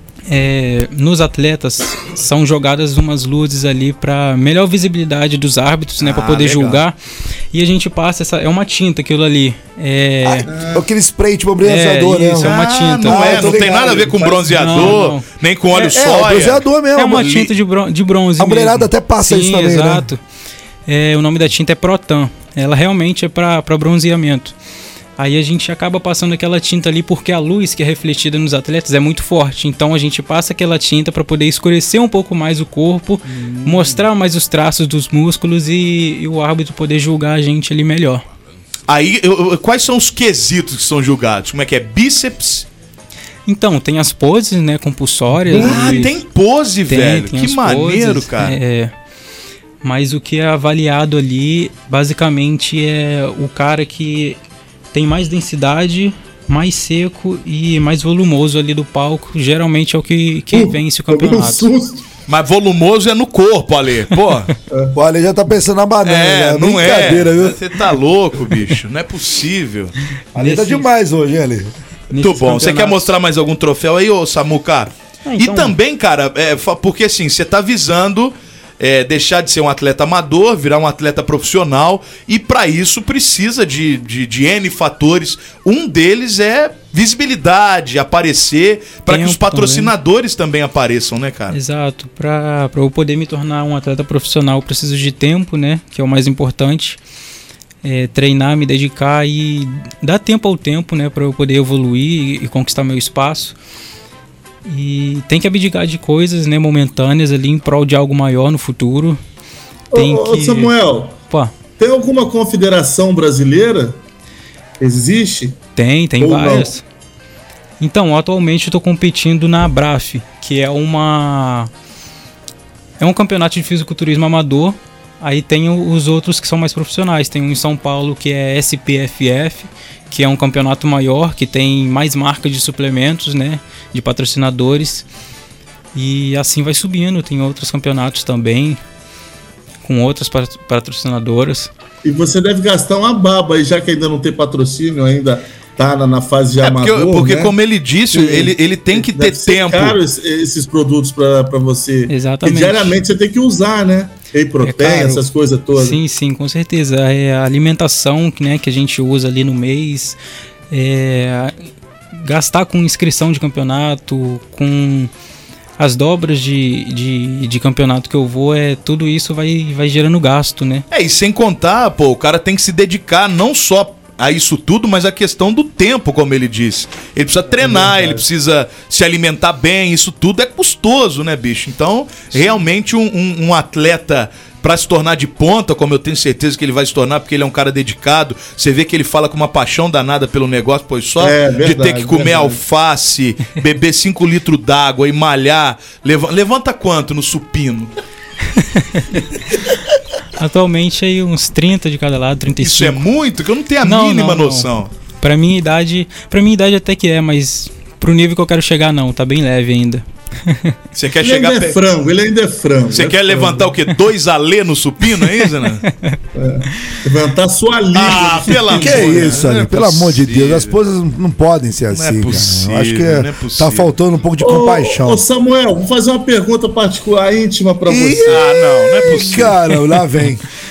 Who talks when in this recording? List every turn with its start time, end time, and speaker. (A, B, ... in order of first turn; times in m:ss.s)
0:00.3-0:07.0 A
0:06.0-0:06.8 B
0:07.5-0:10.5 A
0:10.2-0:14.9 C
0:10.4-0:10.8 D
0:11.6-0:13.5 A
0:12.4-0:16.6 B
0:13.5-0:14.8 D
0:14.5-0:15.2 A
0:15.7-0:17.4 C
0:16.9-0:20.2 A
0:17.2-0:17.5 B
0:18.4-0:20.0 C
0:20.9-0:24.5 A
0:25.2-0:38.2 A
0:33.4-0:34.0 B
0:38.9-0:42.7 B
0:43.5-0:46.2 A
0:45.5-0:48.6 B
0:46.9-0:48.9 A
0:49.8-0:54.4 A
0:54.9-1:01.7 A
1:00.5-1:02.0 D
1:02.3-1:04.5 B
1:04.9-1:07.6 C
1:06.0-1:09.9 B
1:10.3-1:11.7 C
1:10.4-1:10.9 A
1:12.1-1:13.1 A
1:12.2-1:31.6 B
1:15.2-1:15.7 A
1:29.1-1:29.9 A
1:31.5-1:37.0 A
1:37.8-1:43.6 A
1:44.6-1:49.2 A
1:49.9-1:51.2 D
1:49.9-1:50.7 A
1:51.8-1:54.0 D
1:54.8-1:55.6 D
1:55.8-1:56.8 A
1:56.2-1:56.7 D
1:57.8-2:01.7 A
2:03.0-2:15.0 A
2:15.9-2:18.8 A
2:19.8-2:21.7 A
2:22.0-2:27.5 D
2:26.6-2:30.0 B
2:28.1-2:36.0 D
2:32.1-2:33.0 A
2:34.6-2:40.2 A
2:40.7-2:45.1 A
2:45.8-2:50.8 A
2:50.9-3:17.9 B
2:57.6-2:58.2 D
3:11.2-3:12.6 D
3:18.5-3:19.2 A
3:20.4-3:23.0 A
3:22.6-3:24.9 B
3:23.8-3:24.7 A
3:25.2-3:30.8 A
3:30.9-3:31.8 B
3:31.2-3:33.7 D
3:32.9-3:35.8 B
3:35.3-3:36.2 A
3:36.3-3:39.5 D
3:37.9-3:40.8 B
3:38.7-3:45.2 C
3:41.9-3:43.9 B
3:44.4-3:49.3 D
3:47.8-3:50.4 C
3:48.2-3:49.6 B